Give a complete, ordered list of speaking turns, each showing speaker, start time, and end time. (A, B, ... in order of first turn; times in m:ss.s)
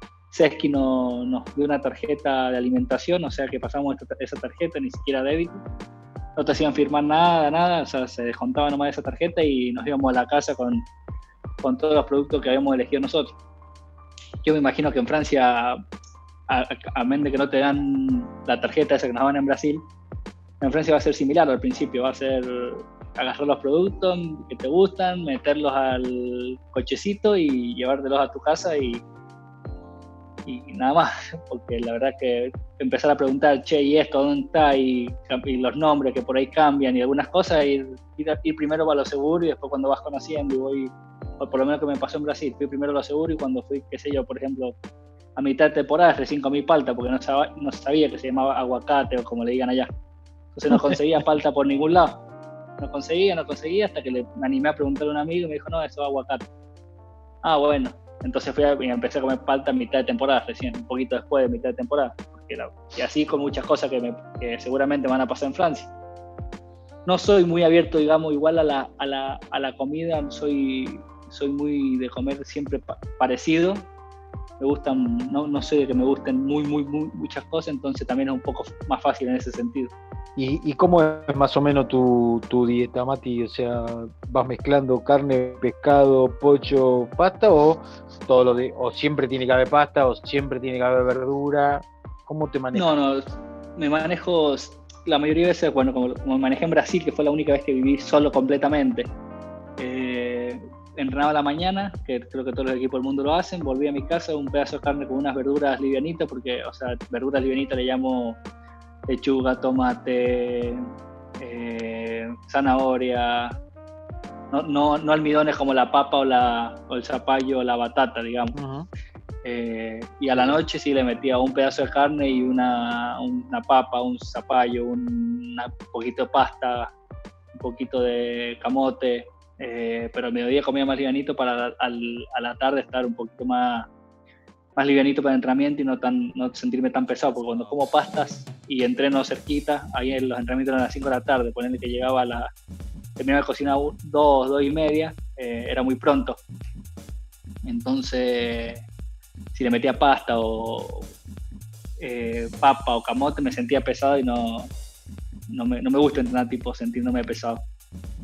0:00.3-0:05.6 A
0:06.4-0:10.9 A
0:11.6-0:13.4 A
0:14.4-0:15.8 A
0:16.5-0:19.9 A
0:20.6-0:29.0 A
0:30.5-0:44.7 A
0:45.4-0:49.9 A
0:50.6-0:52.2 A
0:52.8-0:56.4 A
0:57.4-1:05.9 A
1:07.1-1:13.9 A
1:14.6-1:19.9 A
1:20.4-1:32.9 B
1:32.7-1:33.2 A
1:33.8-1:39.1 A
1:39.8-1:48.4 A
1:49.1-1:50.9 A
1:51.4-1:53.6 A
1:54.5-1:58.6 A
1:58.6-1:58.9 B
1:59.4-2:06.9 A
2:00.3-2:00.6 B
2:07.5-2:13.9 A
2:14.8-2:22.5 A
2:23.2-2:26.4 A
2:27.6-2:28.8 A
2:29.5-2:31.1 A
2:32.0-2:34.7 A
2:35.5-2:37.6 A